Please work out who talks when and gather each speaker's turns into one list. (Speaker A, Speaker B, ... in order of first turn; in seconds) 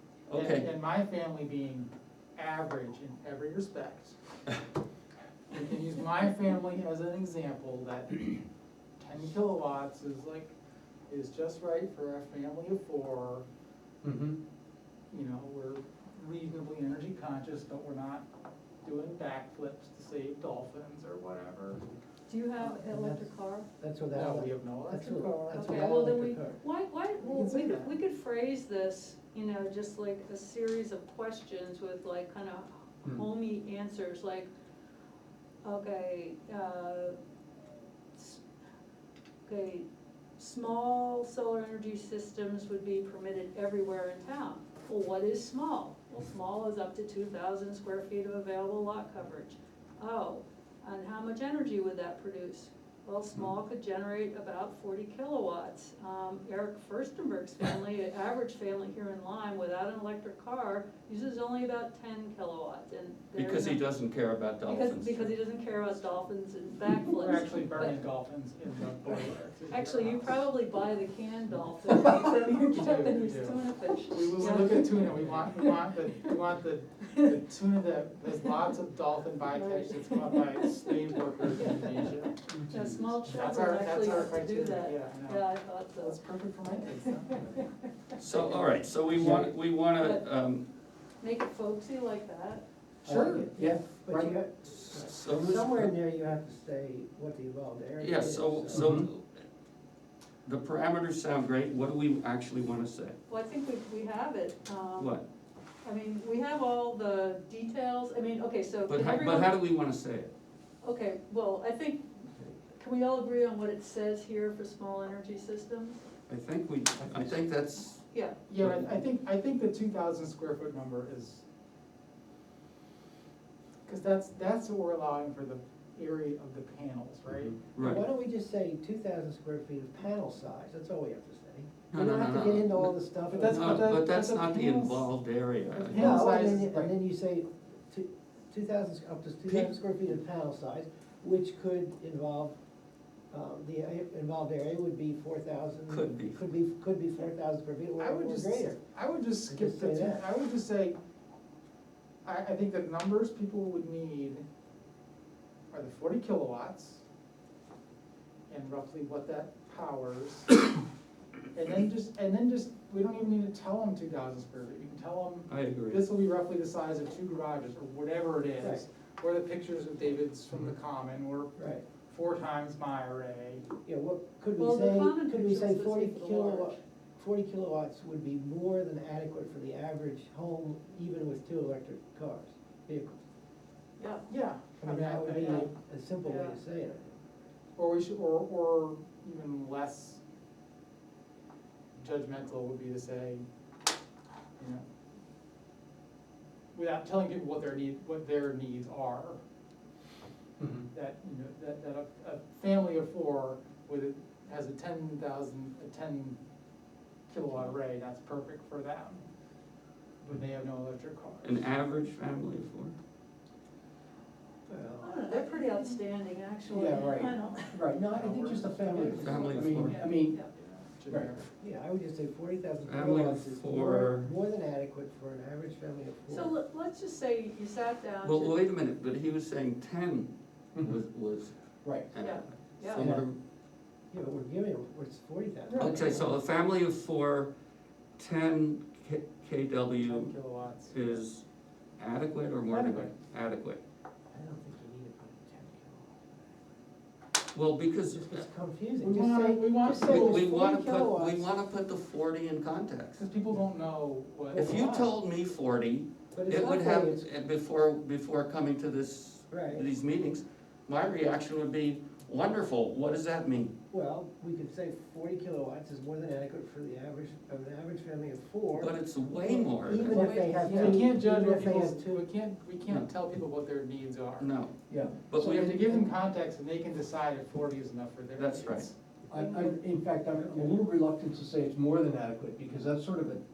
Speaker A: 0.3-0.7, 63.4-65.4, 88.2-90.7, 94.7-95.9, 98.0-99.4, 100.5-103.2, 105.0-105.2, 108.9-110.3, 116.3-118.0, 127.4-128.0, 131.9-136.2, 145.9-146.4, 165.5-166.1, 211.4-213.0, 219.2-220.0, 222.9-224.3, 228.2-231.6, 232.1-233.4, 235.8-237.5, 238.2-240.3, 240.9-241.4, 242.0-243.8, 247.5-248.5, 250.0-253.3, 254.6-263.7, 268.8-270.4, 274.4-274.7, 275.3-275.6, 278.4-278.9
Speaker B: 0.3-4.2, 5.5-8.4, 9.0-10.5, 11.1-13.5, 15.1-18.3, 18.8-21.8, 24.1-25.1, 27.2-27.9, 67.2-70.4, 72.3-82.3, 83.4-85.5, 86.0-87.6, 93.1-93.5, 118.5-121.4, 123.9-127.6, 133.3-135.1, 135.9-136.9, 148.0-151.0, 152.2-154.4, 155.7-157.0, 158.5-160.6, 161.5-171.5, 172.1-173.7, 184.3-185.7, 187.8-190.2, 192.0-193.5, 194.6-194.8, 196.7-199.4, 200.9-206.4, 207.3-209.2, 210.2-211.7, 218.2-219.1, 221.0-221.4, 240.0-241.2, 242.7-243.2, 249.0-250.3, 253.2-255.1, 270.6-274.5, 275.5-278.9
Speaker C: 14.0-14.4, 82.5-83.2, 89.1-89.5, 93.0-94.3, 98.7-99.1, 117.0-117.3, 200.6-200.9, 216.7-220.4, 221.1-221.4, 230.8-231.0, 231.8-232.1, 270.7-271.0, 274.9-276.0, 279.3-283.4
Speaker D: 22.3-23.7, 25.1-34.5, 35.6-37.2, 38.1-38.4, 39.5-39.9, 40.4-63.9, 64.7-68.0, 69.7-76.3, 77.1-77.3, 79.5-87.7, 90.0-90.2, 91.2-92.6, 103.3-105.2, 105.8-109.6, 110.8-116.0, 118.1-118.4, 174.6-176.8, 184.0-184.3, 185.4-185.7, 186.2-186.6, 215.0-217.8, 219.6-220.5, 226.3-228.6, 232.2-233.1, 270.1-270.9
Speaker E: 22.6-26.6, 93.3-98.9, 127.8-134.0, 135.8-142.6, 143.3-148.8, 149.5-150.2, 168.6-168.8, 171.6-171.9, 173.8-183.2, 184.8-187.2, 214.7-215.6, 218.9-219.4, 221.6-226.6, 233.0-233.2, 234.1-236.4, 244.3-246.5, 248.1-251.5, 254.5-255.1, 256.3-257.3, 259.5-259.9, 263.9-272.3, 280.3-280.8